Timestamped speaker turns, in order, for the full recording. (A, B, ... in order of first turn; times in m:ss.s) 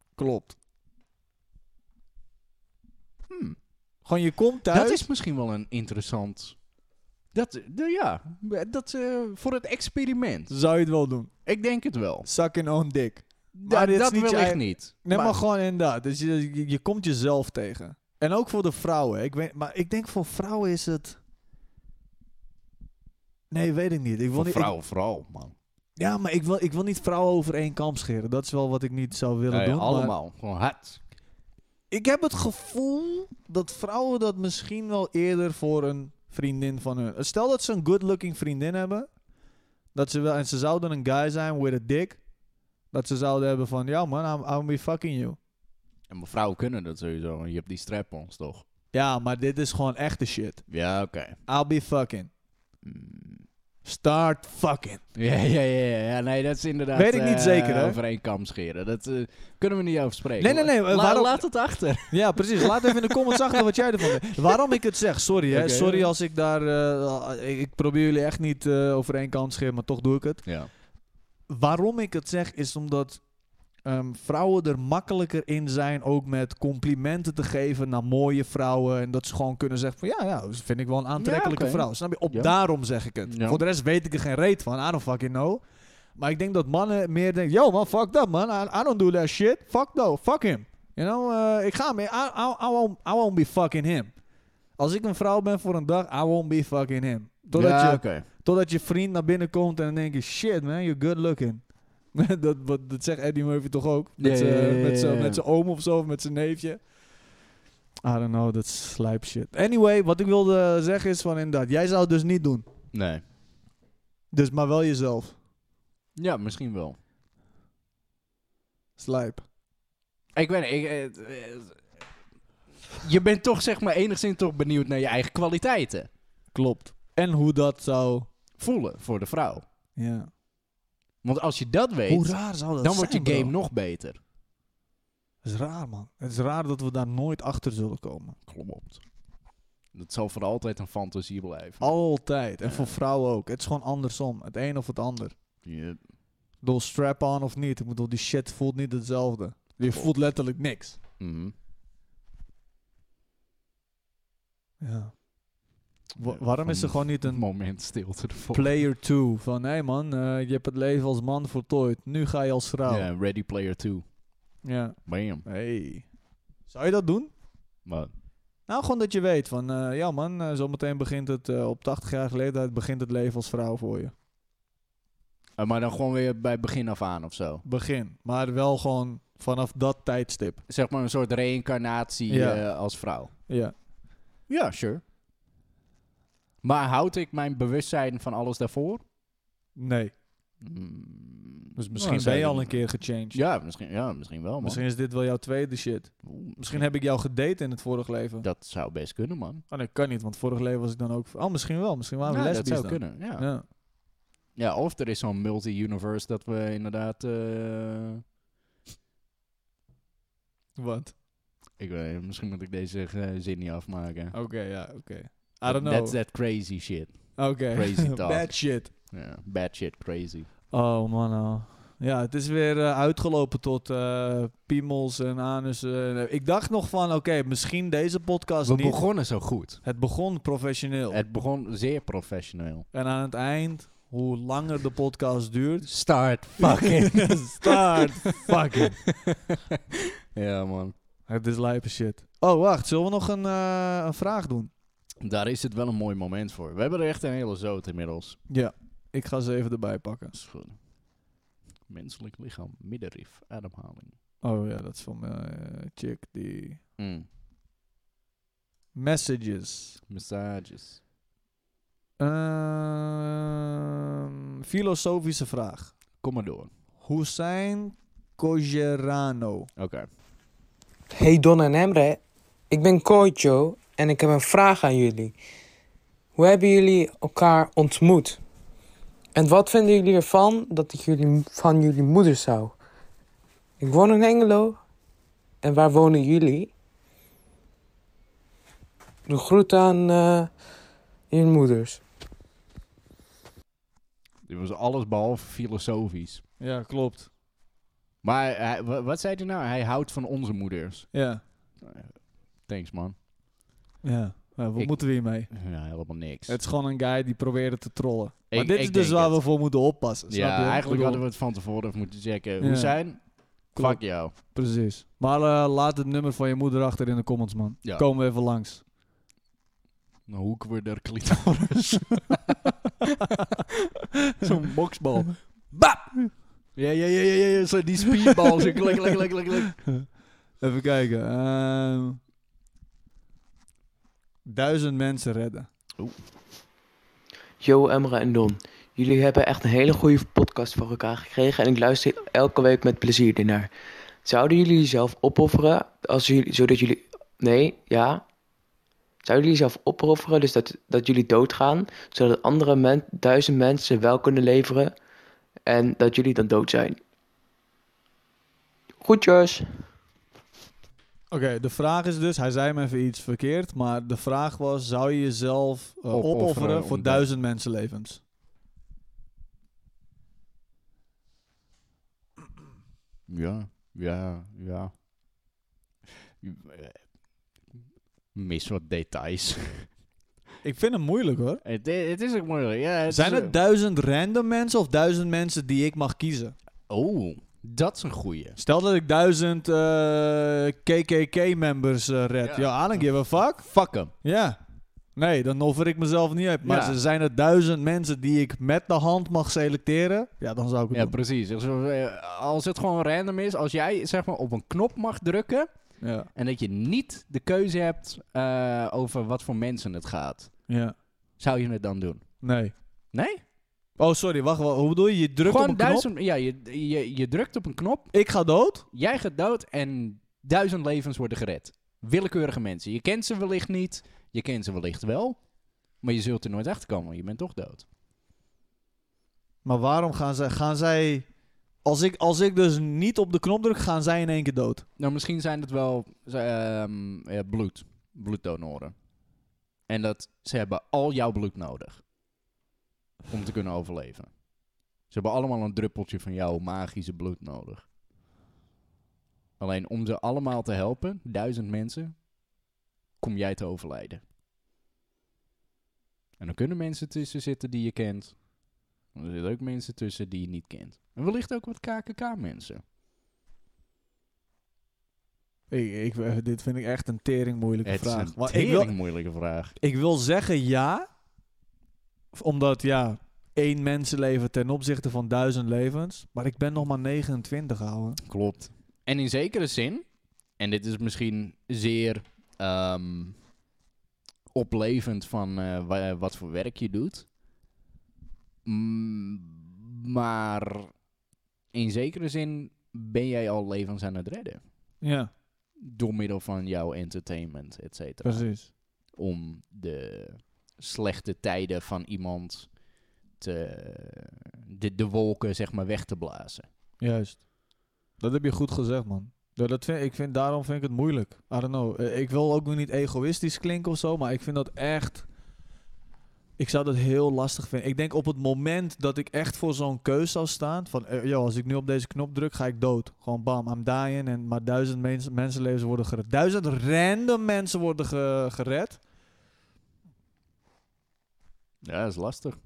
0:00.2-0:00.5 A
0:03.3-0:03.6 B
0:04.0-0:05.0 A
0:04.7-0:06.6 B
0:07.3-0:10.5 B
0:10.5-0:11.3 A
0:11.4-0:12.3 B
0:12.2-0:21.2 A
0:13.5-0:15.4 B
0:23.5-0:24.7 A
0:24.3-0:25.5 B
0:26.0-0:30.1 A
0:29.5-0:31.0 B
0:31.9-0:39.1 A
0:39.9-0:42.2 A
0:42.9-0:45.4 A
0:46.1-0:48.6 B
0:48.9-0:50.6 A
0:50.7-0:51.4 B
0:51.5-0:52.3 A
0:52.8-0:53.4 B
0:53.8-0:55.0 A
0:55.1-1:04.6 B
0:56.9-0:58.0 A
1:00.4-1:01.4 A
1:02.1-1:10.4 A
1:05.5-1:06.1 B
1:10.4-1:10.7 B
1:11.5-1:13.2 A
1:13.8-1:25.6 A
1:21.2-1:22.5 B
1:23.2-1:23.6 B
1:26.2-1:34.1 A
1:34.8-1:46.8 A
1:37.5-1:38.2 B
1:44.2-1:45.4 B
1:48.0-1:52.6 A
1:52.9-1:53.2 B
1:54.3-1:55.3 A
1:56.2-1:57.0 B
1:59.0-1:59.4 A
2:00.3-2:01.9 B
2:03.0-2:06.1 B
2:06.5-2:08.3 A
2:08.6-2:09.6 B
2:10.0-2:10.3 A
2:11.2-2:14.2 B
2:12.1-2:13.5 A
2:15.4-2:18.4 A
2:18.5-2:19.0 B
2:19.9-2:21.9 B
2:21.8-2:25.3 A
2:22.6-2:23.0 B
2:25.6-2:26.0 B
2:26.6-2:31.0 A
2:31.2-2:31.5 B
2:34.8-2:35.2 A
2:36.2-2:37.4 A
2:36.2-2:38.7 B
2:38.5-2:43.1 A
2:42.9-2:44.0 B
2:44.6-2:46.0 A
2:45.0-2:45.4 B
2:46.7-2:47.3 A
2:47.8-2:48.1 B
2:48.7-2:54.1 A
2:55.6-2:57.6 B
2:57.6-3:00.6 A
3:00.7-3:03.3 B
3:02.3-3:02.6 A
3:03.5-3:03.7 A
3:04.5-3:05.0 B
3:06.6-3:09.0 B
3:09.8-3:10.1 A
3:10.6-3:14.8 B
3:11.8-3:13.4 A
3:14.6-3:18.4 A
3:16.2-3:16.8 B
3:18.4-3:19.6 B
3:19.7-3:23.6 A
3:22.2-3:23.5 B
3:24.5-3:28.2 B
3:30.8-3:31.2 A
3:31.8-3:34.3 B
3:34.3-3:36.2 A
3:35.6-3:40.5 B
3:37.4-3:38.9 A
3:40.7-3:51.2 A
3:48.6-3:49.8 B
3:51.1-3:52.8 B
3:52.9-3:55.9 A
3:55.8-3:59.8 B
3:56.6-3:59.0 A
4:00.3-4:00.9 B
4:01.3-4:04.7 A
4:05.2-4:08.4 B
4:08.5-4:10.4 A
4:10.3-4:10.8 B
4:11.9-4:14.2 B
4:14.4-4:16.8 A
4:17.0-4:17.2 B
4:18.9-4:20.0 A
4:20.1-4:21.0 B
4:22.2-4:23.6 A
4:24.6-4:25.9 A
4:26.2-4:26.7 B
4:27.0-4:29.7 A
4:29.8-4:30.1 B
4:31.1-4:35.4 C
4:36.4-4:38.4 C
4:39.3-4:42.8 C
4:43.8-4:44.8 C
4:45.6-4:46.7 C
4:49.2-4:50.5 C
4:51.3-4:52.0 C
4:54.4-4:56.4 B
4:56.6-4:57.3 A
4:58.2-5:01.1 B
5:01.1-5:01.4 A
5:01.8-5:03.1 B
5:04.0-5:05.5 A
5:04.8-5:06.6 B
5:06.5-5:11.2 A
5:08.5-5:09.4 B
5:10.3-5:13.2 B
5:12.6-5:13.0 A
5:13.7-5:14.3 B
5:13.7-5:18.8 A
5:20.3-5:23.4 B
5:24.4-5:26.2 B
5:26.7-5:29.8 B
5:28.5-5:28.9 A
5:29.8-5:30.1 A
5:30.6-5:32.2 A
5:34.4-5:35.7 A
5:37.6-5:43.7 D
5:44.2-5:48.2 D
5:49.2-5:54.9 D
5:55.6-5:57.0 D
5:59.0-5:59.8 D
6:01.3-6:08.2 A
6:06.1-6:07.2 B
6:13.3-6:15.0 B
6:16.4-6:17.0 B
6:18.3-6:19.9 B
6:20.6-6:21.6 A
6:21.6-6:23.6 B
6:23.1-6:26.5 A
6:26.9-6:28.6 B
6:28.6-6:34.6 A
6:32.4-6:34.1 B
6:35.1-6:41.2 A
6:36.6-6:37.0 B
6:40.9-6:45.7 B
6:46.0-6:46.3 A
6:46.3-6:50.5 B
6:50.7-6:51.0 A
6:51.4-6:52.3 B
6:52.4-6:52.7 A
6:53.1-6:53.4 B
6:54.0-6:56.0 A
6:55.4-6:58.1 B
6:58.1-6:58.8 A
6:58.9-7:05.4 B
7:06.0-7:07.8 B
7:09.6-7:11.2 A
7:11.8-7:14.8 A
7:15.0-7:18.9 B
7:19.9-7:22.0 B
7:23.3-7:24.4 B
7:25.0-7:27.8 B
7:29.6-7:32.2 B
7:33.2-7:34.2 B
7:36.4-7:38.4 B
7:39.1-7:42.8 B
7:45.7-7:48.9 A
7:47.8-7:49.7 B
7:49.8-7:51.1 A
7:52.3-7:58.2 A
7:58.2-8:00.0 B
8:00.6-8:03.4 B
8:04.5-8:07.3 B
8:08.6-8:10.9 B
8:11.7-8:14.6 B
8:15.0-8:15.3 A
8:15.8-8:22.8 B
8:18.2-8:18.7 A
8:23.4-8:26.7 B
8:27.0-8:27.4 A
8:28.2-8:35.3 A
8:36.6-8:49.0 A
8:51.8-8:52.6 B